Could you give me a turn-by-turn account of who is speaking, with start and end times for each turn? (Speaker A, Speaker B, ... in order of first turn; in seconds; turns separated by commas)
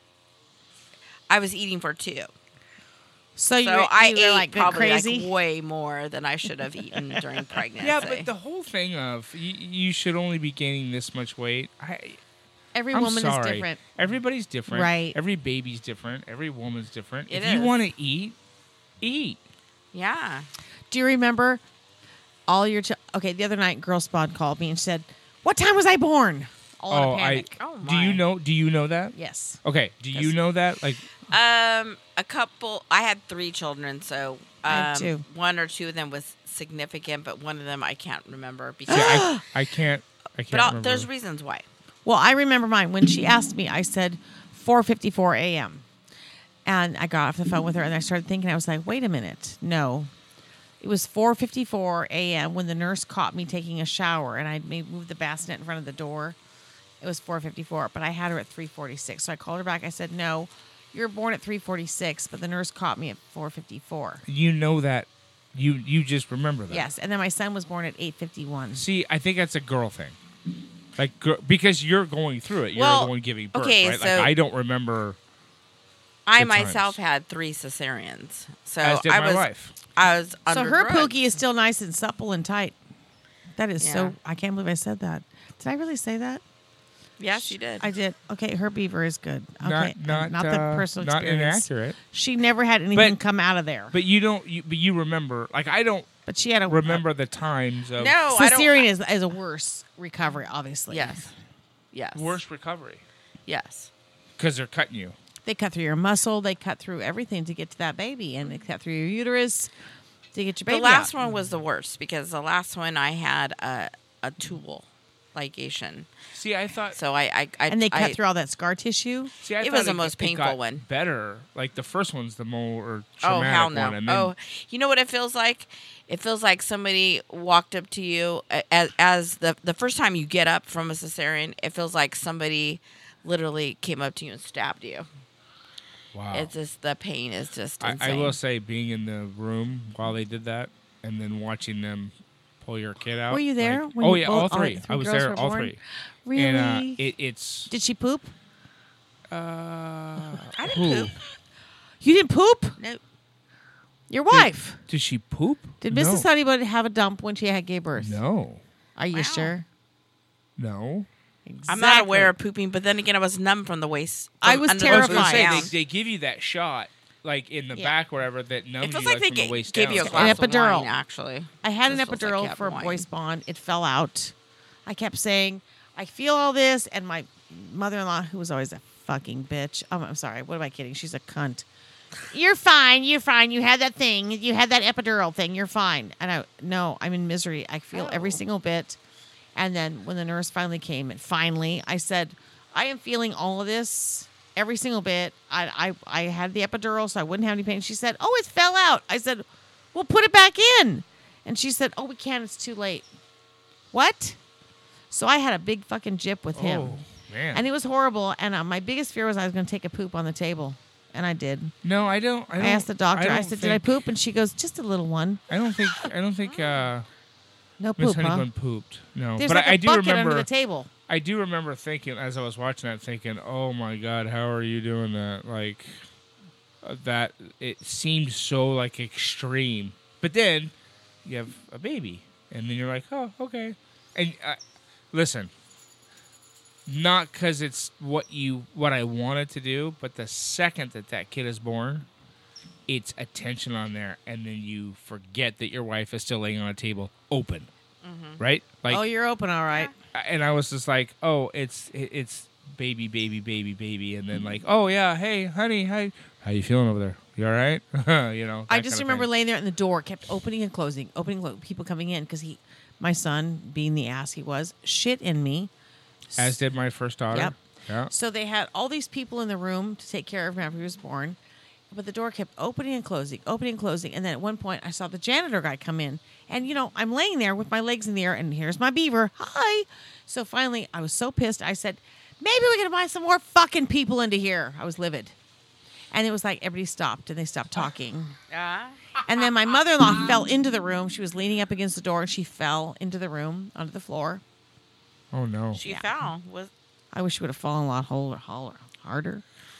Speaker A: 1.3-2.3, Speaker B: 3.4-5.3, Speaker A: 3.6-8.3, Speaker C: 7.8-12.2, Speaker B: 12.7-13.8, Speaker C: 12.9-18.4, Speaker B: 14.7-15.2, Speaker A: 17.3-17.7, Speaker C: 19.0-19.4, Speaker A: 19.9-20.5, Speaker B: 20.9-21.6, Speaker B: 22.5-27.6, Speaker C: 26.9-31.0, Speaker A: 27.6-28.2, Speaker B: 29.1-29.6, Speaker A: 31.3-39.3, Speaker B: 34.7-35.2, Speaker B: 38.9-39.4, Speaker C: 38.9-41.1, Speaker A: 40.5-41.6, Speaker B: 42.0-45.8, Speaker B: 46.6-50.1, Speaker B: 50.8-56.4, Speaker B: 57.0-64.2, Speaker C: 64.2-66.9, Speaker B: 66.7-68.8, Speaker C: 68.7-70.2, Speaker C: 71.0-75.2, Speaker A: 72.7-74.3, Speaker A: 76.2-81.2, Speaker C: 76.4-77.0, Speaker C: 78.8-79.7, Speaker B: 80.5-82.7, Speaker B: 83.5-86.4, Speaker A: 83.8-84.1, Speaker A: 87.2-87.8, Speaker B: 87.3-93.9, Speaker C: 89.6-92.0, Speaker C: 93.9-96.1, Speaker B: 96.2-97.0, Speaker C: 96.7-98.2, Speaker A: 98.0-98.8, Speaker B: 98.3-101.3, Speaker A: 100.9-101.3, Speaker A: 101.9-102.4, Speaker C: 102.1-103.0, Speaker A: 103.5-103.9, Speaker C: 104.4-105.2, Speaker B: 105.4-109.7, Speaker B: 110.3-111.1, Speaker A: 110.7-116.1, Speaker C: 116.3-117.0, Speaker A: 116.9-118.2, Speaker B: 117.7-119.3, Speaker C: 119.4-124.3, Speaker A: 119.6-120.8, Speaker A: 123.2-135.1, Speaker C: 136.1-136.5, Speaker A: 136.3-138.4, Speaker C: 137.8-145.8, Speaker B: 143.3-147.0, Speaker C: 146.3-147.7, Speaker B: 147.7-148.3, Speaker C: 149.3-151.1, Speaker A: 150.5-151.2, Speaker B: 152.0-152.8, Speaker B: 154.1-154.8, Speaker C: 154.3-156.3, Speaker B: 155.8-158.2, Speaker C: 157.9-158.6, Speaker B: 158.9-159.7, Speaker A: 159.1-159.5, Speaker C: 160.6-161.1, Speaker B: 161.4-162.3, Speaker A: 161.7-165.7, Speaker B: 164.4-165.7, Speaker C: 164.8-170.4, Speaker A: 168.8-173.0, Speaker B: 170.0-170.9, Speaker B: 171.6-174.3, Speaker B: 174.8-181.6, Speaker B: 182.3-189.0, Speaker A: 187.9-188.4, Speaker B: 189.5-203.1, Speaker B: 203.9-204.4, Speaker B: 205.1-211.7, Speaker C: 206.5-207.6, Speaker C: 211.8-214.0, Speaker B: 212.6-215.4, Speaker C: 215.5-217.1, Speaker A: 216.4-216.9, Speaker B: 217.8-218.5, Speaker C: 218.0-220.5, Speaker B: 219.4-220.9, Speaker C: 221.1-226.0, Speaker C: 226.8-234.6, Speaker C: 235.1-235.5, Speaker C: 236.8-242.1, Speaker C: 242.9-247.7, Speaker A: 248.0-248.4, Speaker C: 248.4-249.0, Speaker B: 248.9-249.9, Speaker C: 250.1-259.3, Speaker B: 258.7-265.7, Speaker B: 266.3-266.6, Speaker C: 266.4-268.1, Speaker B: 267.3-267.5, Speaker B: 268.1-271.4, Speaker B: 271.9-285.3, Speaker B: 286.1-288.4, Speaker A: 288.5-289.8, Speaker B: 289.2-294.4, Speaker C: 295.3-295.8, Speaker A: 295.7-296.7, Speaker B: 295.8-296.1, Speaker B: 297.1-299.4